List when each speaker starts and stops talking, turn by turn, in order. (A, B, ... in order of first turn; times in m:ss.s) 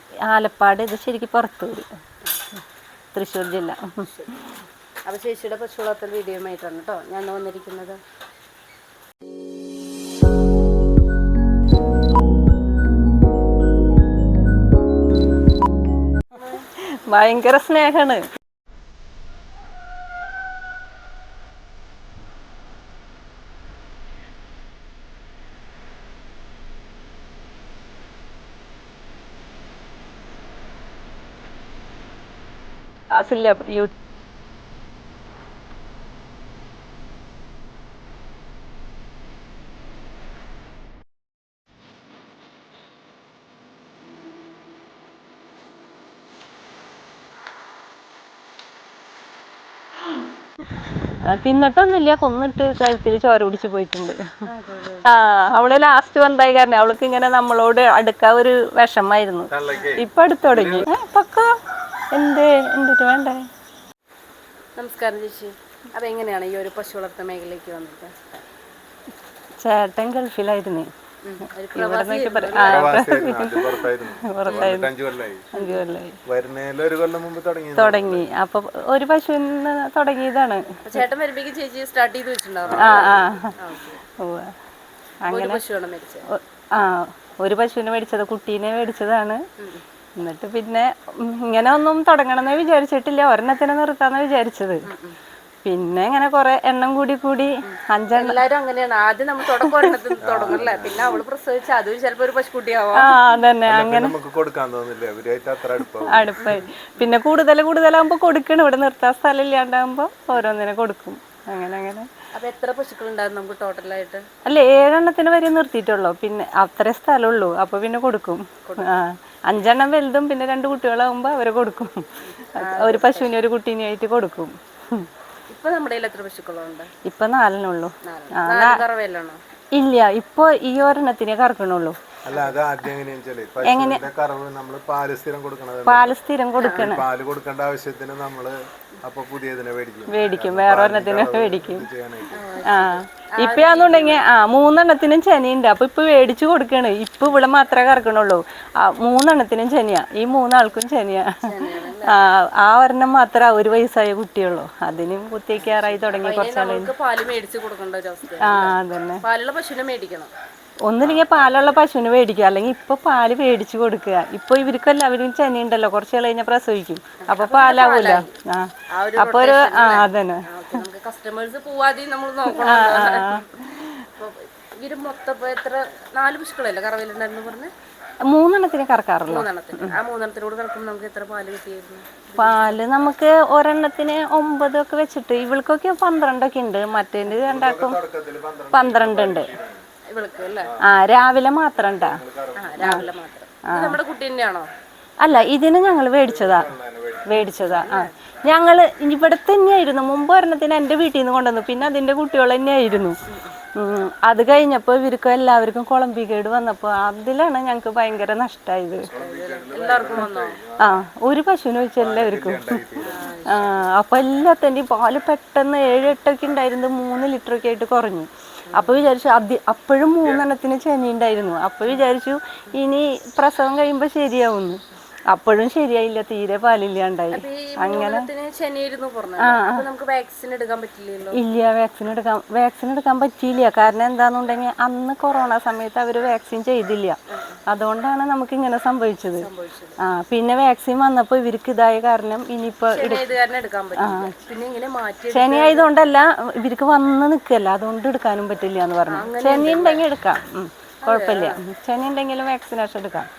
0:00.2-0:01.9 A
0:03.1-0:04.0 A
0:04.0-0:04.4 B
0:05.0-0:08.0 B
0:16.3-0:16.6 B
0:17.1-0:18.2 A
0:33.1-0:33.9 A
0:51.3-0:54.3 A
0:54.4-0:55.1 B
0:55.0-1:01.5 A
0:59.5-1:00.9 C
1:02.1-1:03.4 A
1:04.8-1:08.2 B
1:09.6-1:10.9 A
1:11.2-1:12.9 B
1:11.7-1:14.9 A
1:12.6-1:15.5 C
1:15.5-1:16.1 A
1:16.3-1:18.3 C
1:17.8-1:21.0 A
1:20.8-1:24.0 B
1:22.6-1:23.6 C
1:22.8-1:23.5 A
1:24.2-1:24.5 A
1:25.2-1:26.3 B
1:25.3-1:25.6 A
1:26.3-1:29.4 A
1:29.6-1:29.8 B
1:30.2-1:34.8 A
1:34.8-1:35.2 B
1:35.6-1:38.4 A
1:37.6-1:43.1 B
1:40.2-1:41.2 C
1:43.0-1:44.1 A
1:43.7-1:46.3 C
1:46.0-1:52.1 A
1:46.4-1:46.7 B
1:52.3-1:54.2 B
1:54.4-2:05.1 A
2:02.4-2:03.3 B
2:05.5-2:06.9 B
2:07.0-2:08.8 A
2:08.0-2:09.4 B
2:09.7-2:12.0 A
2:12.2-2:16.1 C
2:13.6-2:14.0 A
2:15.8-2:17.0 A
2:16.6-2:16.9 B
2:16.7-2:22.4 C
2:20.1-2:21.8 A
2:22.3-2:24.2 B
2:22.6-2:36.9 A
2:31.4-2:32.2 B
2:35.6-2:40.3 B
2:38.4-2:39.2 A
2:40.8-2:50.4 A
2:41.0-2:41.8 C
2:47.2-2:48.3 B
2:48.9-2:53.5 B
2:52.5-2:54.0 A
2:54.2-2:57.7 B
2:58.3-2:59.9 A
2:59.3-3:02.8 B
3:02.4-3:08.0 A
3:07.4-3:09.8 C
3:08.7-3:09.5 A
3:10.1-3:10.7 B
3:10.6-3:10.9 C
3:10.8-3:12.2 A
3:11.8-3:13.1 C
3:12.6-3:14.7 B
3:13.7-3:14.0 A
3:15.2-3:16.7 A
3:16.2-3:17.4 C
3:17.3-3:23.2 A
3:17.4-3:18.1 B
3:23.2-3:23.5 B
3:23.8-3:29.1 A
3:29.0-3:30.9 C
3:29.2-3:30.6 B
3:30.8-3:32.8 A
3:32.0-3:33.3 C
3:33.0-3:33.8 B
3:33.5-3:48.2 A
3:38.7-3:39.1 B
3:40.2-3:40.5 C
3:47.3-3:51.4 B
3:49.4-3:49.8 A
3:51.3-3:59.4 A
3:57.3-3:57.6 B
3:59.4-4:00.0 B
4:00.0-4:03.3 A
4:02.9-4:05.9 B
4:04.0-4:04.3 A
4:05.3-4:13.3 A
4:09.1-4:10.0 B
4:11.0-4:11.6 B